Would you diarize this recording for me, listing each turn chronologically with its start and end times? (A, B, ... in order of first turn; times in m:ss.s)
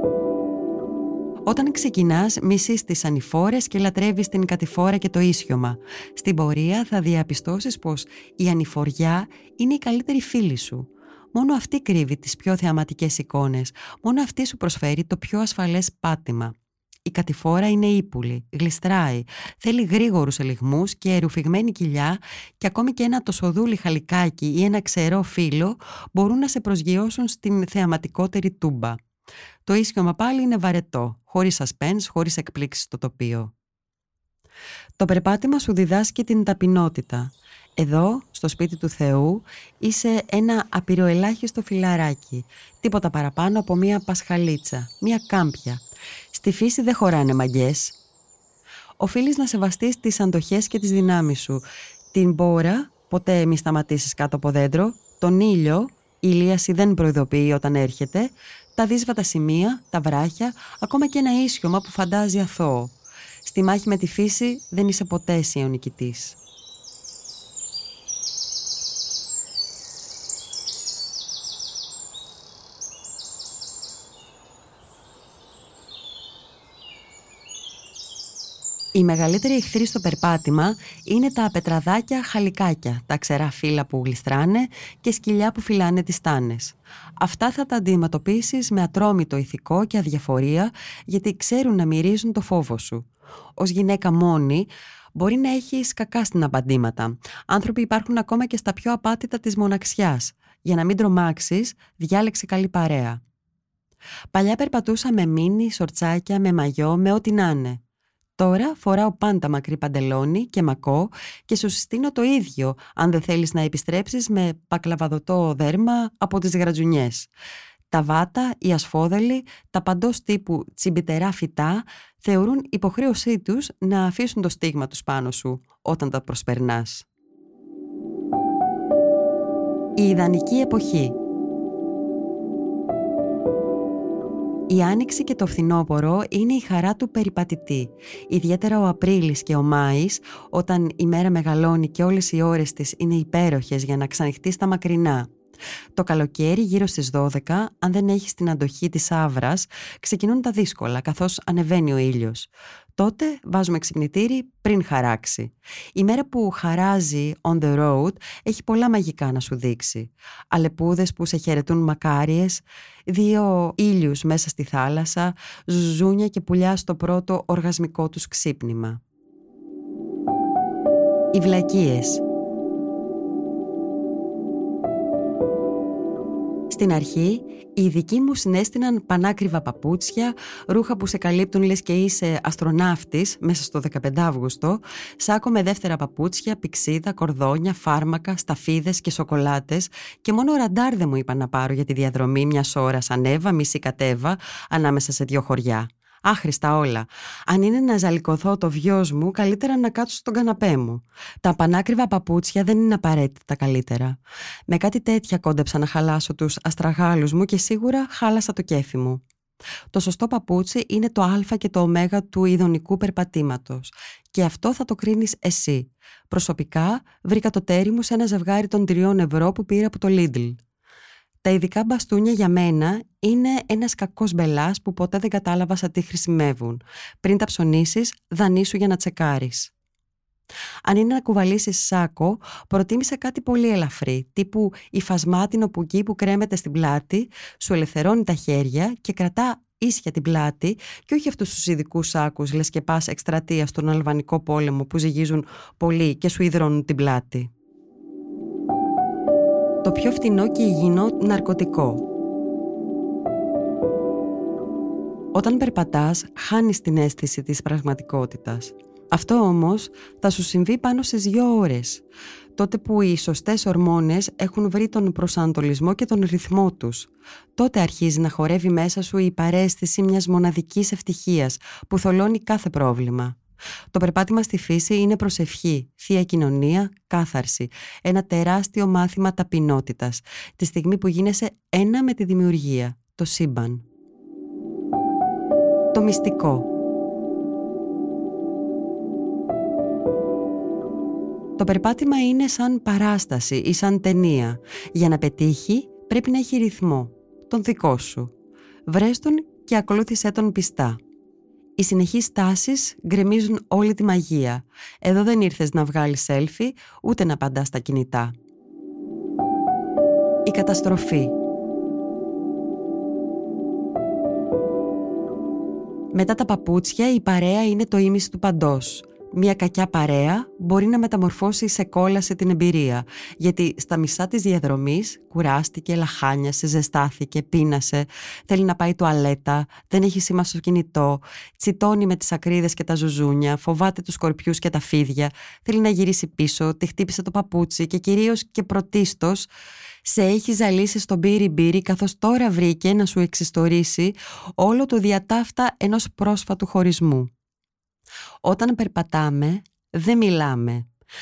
0:01.5-0:16.5 A
0:17.0-0:29.0 A
0:29.6-0:33.5 A
0:35.0-0:48.0 A
0:49.0-1:06.4 A
1:18.9-1:43.2 A
1:44.3-1:47.8 A
1:48.4-1:57.3 A
1:57.9-2:07.0 A
2:10.0-2:11.2 A
2:14.7-2:25.3 A
2:25.9-2:49.0 A
2:51.3-2:52.2 A
2:56.7-3:29.2 A
3:29.9-3:40.6 A
3:41.4-3:49.7 A
3:50.8-4:07.5 A
4:09.8-4:12.0 A
4:15.3-4:22.0 A
4:22.6-4:33.4 A
4:33.9-4:43.8 A
4:45.9-4:46.7 A
4:51.6-4:58.3 A
4:58.9-5:01.0 A
5:01.8-5:08.3 A
5:10.4-5:11.3 A
5:16.1-5:39.5 A
5:40.0-5:47.3 A
5:48.4-5:50.9 A